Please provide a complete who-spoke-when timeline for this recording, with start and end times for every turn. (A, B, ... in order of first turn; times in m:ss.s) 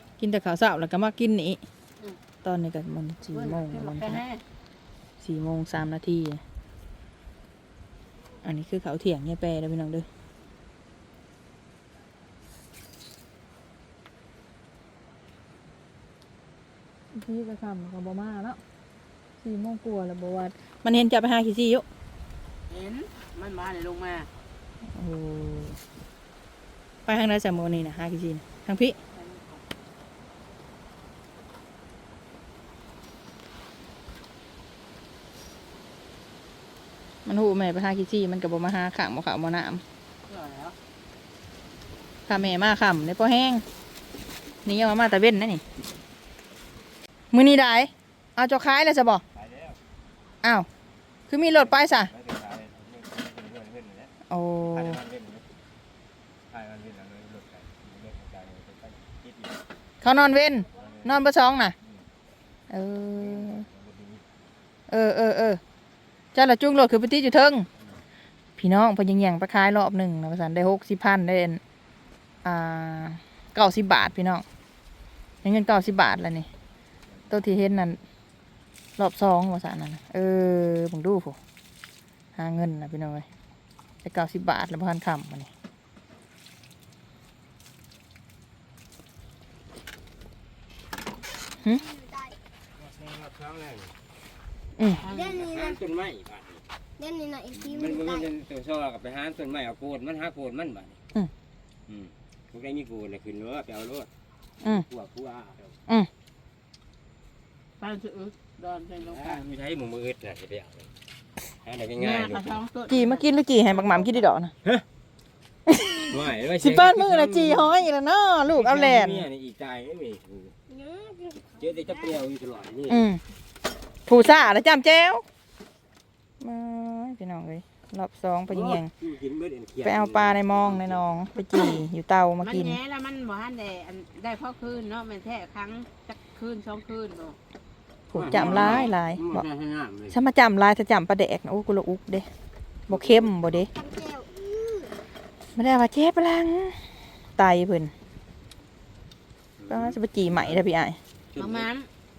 0:00.2-0:01.6 A
0:02.4-0:04.2 A
0:03.3-0:04.4 B
0:05.2-0:06.4 A
0:08.4-0:10.0 A
0:17.1-0:18.6 A
0:19.4-0:21.8 A
0:22.7-0:24.3 B
0:24.9-0:25.8 A
0:27.0-0:29.0 A
0:29.1-0:29.6 B
0:37.2-0:39.8 A
0:40.2-0:40.8 B
0:42.3-0:43.6 A
0:44.6-0:45.6 A
0:47.3-0:49.2 A
0:49.3-0:49.8 C
0:51.3-0:52.1 A
0:51.5-0:54.1 C
0:54.3-0:55.0 A
0:54.7-0:55.5 C
0:56.5-0:59.6 C
1:00.0-1:01.7 A
1:00.8-1:01.2 C
1:02.7-1:03.7 A
1:03.2-1:04.2 C
1:04.9-1:05.6 A
1:06.3-1:07.7 A
1:08.6-1:11.6 A
1:12.4-1:14.4 A
1:15.4-1:16.5 A
1:17.3-1:18.0 A
1:19.0-1:21.4 A
1:22.4-1:23.2 A
1:24.0-1:25.5 A
1:31.8-1:32.3 D
1:32.8-1:33.9 C
1:35.0-1:35.4 B
1:35.1-1:35.8 D
1:35.1-1:36.6 C
1:37.0-1:38.2 D
1:37.5-1:41.0 C
1:41.9-1:44.1 C
1:44.6-1:45.7 C
1:47.8-1:49.4 B
1:49.0-1:50.9 C
1:51.6-1:52.5 C
1:52.0-1:54.2 B
1:52.9-1:54.5 A
1:55.7-1:59.2 A
1:56.1-1:57.7 C
1:58.5-2:00.5 C
2:00.7-2:02.1 D
2:01.6-2:03.1 C
2:02.9-2:03.2 A
2:04.1-2:05.2 A
2:06.4-2:08.9 A
2:08.5-2:11.0 C
2:09.8-2:12.8 A
2:11.5-2:11.8 B
2:12.4-2:17.4 B
2:18.1-2:19.4 A
2:18.1-2:20.2 C
2:20.1-2:22.2 A
2:22.9-2:23.7 A
2:22.9-2:23.7 C
2:23.7-2:24.9 D
2:25.5-2:26.8 A
2:27.4-2:27.9 A
2:29.6-2:30.6 C
2:29.7-2:31.0 A
2:31.3-2:31.7 C
2:31.4-2:31.9 B